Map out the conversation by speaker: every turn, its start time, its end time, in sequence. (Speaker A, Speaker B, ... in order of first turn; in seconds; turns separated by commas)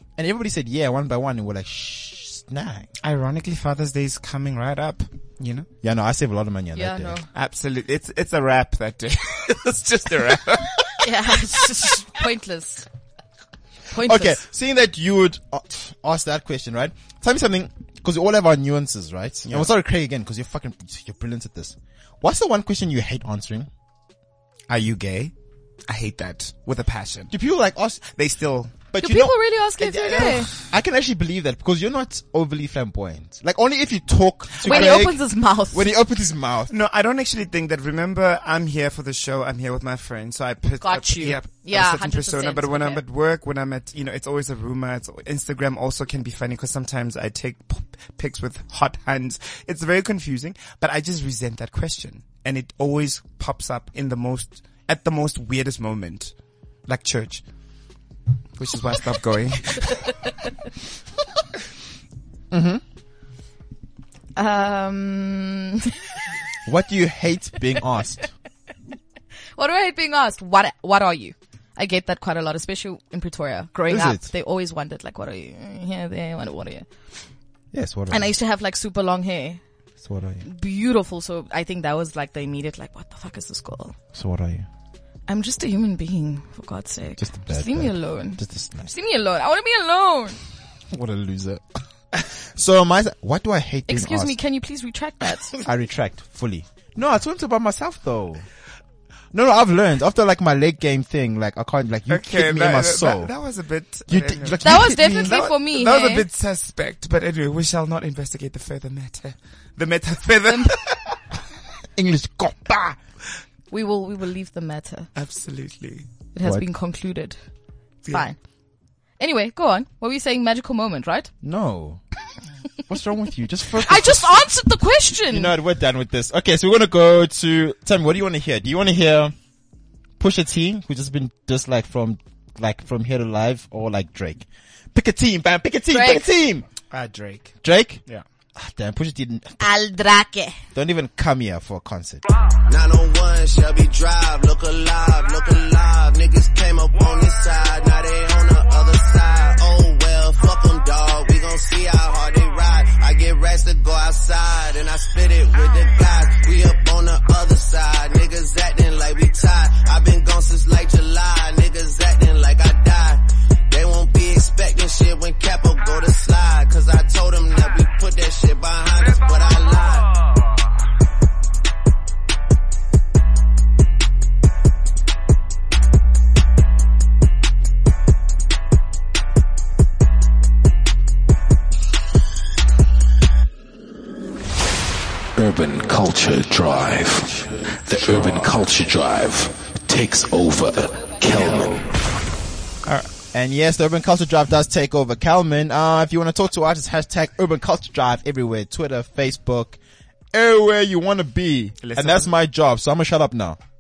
Speaker A: 0.2-2.9, Speaker B: 3.0-5.7, Speaker A: 5.8-7.2, Speaker C: 6.8-7.3, Speaker B: 7.3-11.0, Speaker C: 11.0-12.9, Speaker C: 13.9-14.4, Speaker A: 13.9-23.7, Speaker B: 19.5-19.7, Speaker B: 24.7-25.3, Speaker B: 25.9-27.3, Speaker A: 27.3-28.0, Speaker B: 28.1-28.8, Speaker A: 28.9-36.7, Speaker C: 29.0-30.5, Speaker B: 30.1-30.6, Speaker B: 34.6-35.1, Speaker C: 34.6-35.9, Speaker B: 36.7-56.3, Speaker C: 40.8-43.0, Speaker B: 56.9-57.4, Speaker B: 58.6-60.1, Speaker A: 62.5-62.8, Speaker C: 64.4-66.0, Speaker A: 66.7-68.3, Speaker C: 69.6-76.9, Speaker A: 73.9-74.3, Speaker A: 77.7-78.3, Speaker C: 78.1-79.6, Speaker A: 80.0-80.5, Speaker C: 80.5-84.0, Speaker A: 84.1-84.7, Speaker C: 85.3-90.4, Speaker A: 87.2-88.9, Speaker A: 90.9-94.4, Speaker C: 93.9-95.6, Speaker A: 95.6-98.5, Speaker A: 99.3-103.3, Speaker B: 102.1-111.2, Speaker A: 104.1-105.4, Speaker C: 104.6-106.3, Speaker C: 110.5-110.8, Speaker A: 112.0-113.0, Speaker C: 113.7-115.1, Speaker B: 115.2-116.1, Speaker C: 116.3-117.4, Speaker C: 118.1-118.4, Speaker C: 119.2-121.3, Speaker A: 121.4-122.0, Speaker A: 122.9-124.5, Speaker C: 123.7-125.5, Speaker A: 125.3-129.3, Speaker A: 130.2-136.7, Speaker C: 135.9-136.3, Speaker B: 136.9-138.2, Speaker A: 137.6-138.0, Speaker A: 138.6-139.6, Speaker C: 139.6-140.6, Speaker A: 140.7-142.2, Speaker D: 142.7-170.2, Speaker E: 185.4-191.9, Speaker A: 193.3-199.8, Speaker A: 200.3-203.6, Speaker B: 201.8-202.3